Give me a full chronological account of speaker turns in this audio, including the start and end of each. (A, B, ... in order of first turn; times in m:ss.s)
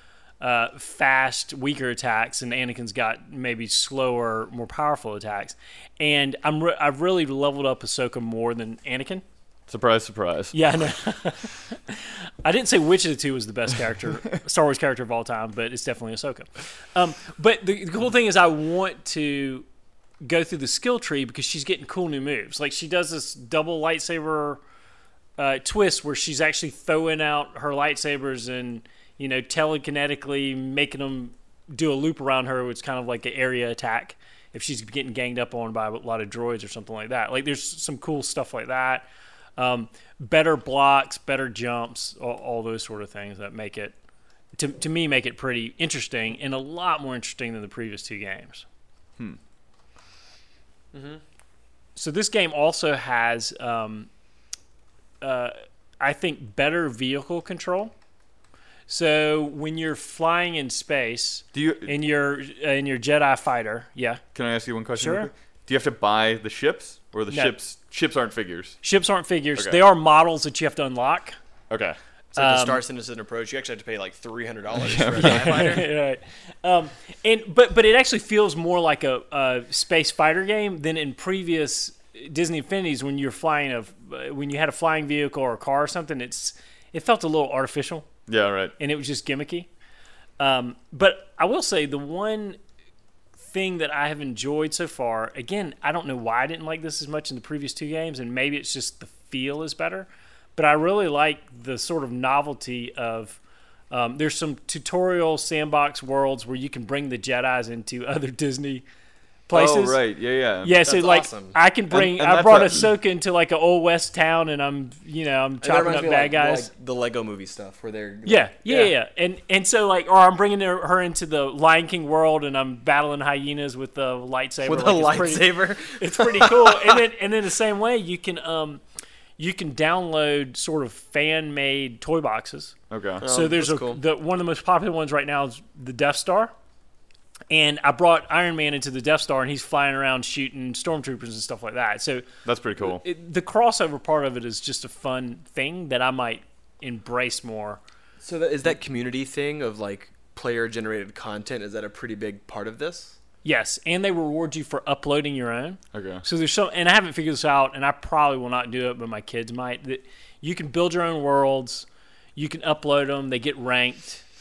0:00.4-0:09.2 A
0:09.7-0:10.5 B
0:10.5-0:19.6 A
0:20.2-0:24.6 A
0:25.4-0:43.9 A
0:44.6-0:48.6 A
0:50.9-0:51.2 C
0:52.0-0:54.1 A
0:55.2-0:57.9 A
0:58.9-1:04.2 A
1:01.5-1:02.0 B
1:04.3-1:08.8 B
1:05.0-1:05.3 A
1:07.3-1:07.6 A
1:08.8-1:11.4 A
1:09.6-1:09.8 B
1:11.7-1:12.0 B
1:12.4-1:12.8 A
1:12.4-1:15.8 C
1:14.7-1:15.8 B
1:15.1-1:28.1 A
1:28.3-1:28.7 B
1:28.8-1:29.7 A
1:30.4-1:32.6 A
1:33.4-1:43.4 A
1:43.9-1:48.8 A
1:49.5-1:50.0 A
1:49.5-1:50.8 B
1:50.6-1:56.7 A
1:50.8-1:51.6 C
1:51.9-1:52.9 B
1:55.6-1:58.9 C
1:58.2-2:08.8 A
2:04.6-2:06.8 C
2:09.4-2:16.5 A
2:12.9-2:13.2 B
2:13.2-2:14.0 C
2:17.5-2:27.8 A
2:22.4-2:23.0 B
2:28.2-2:33.2 C
2:33.4-2:44.2 A
2:35.9-2:36.2 B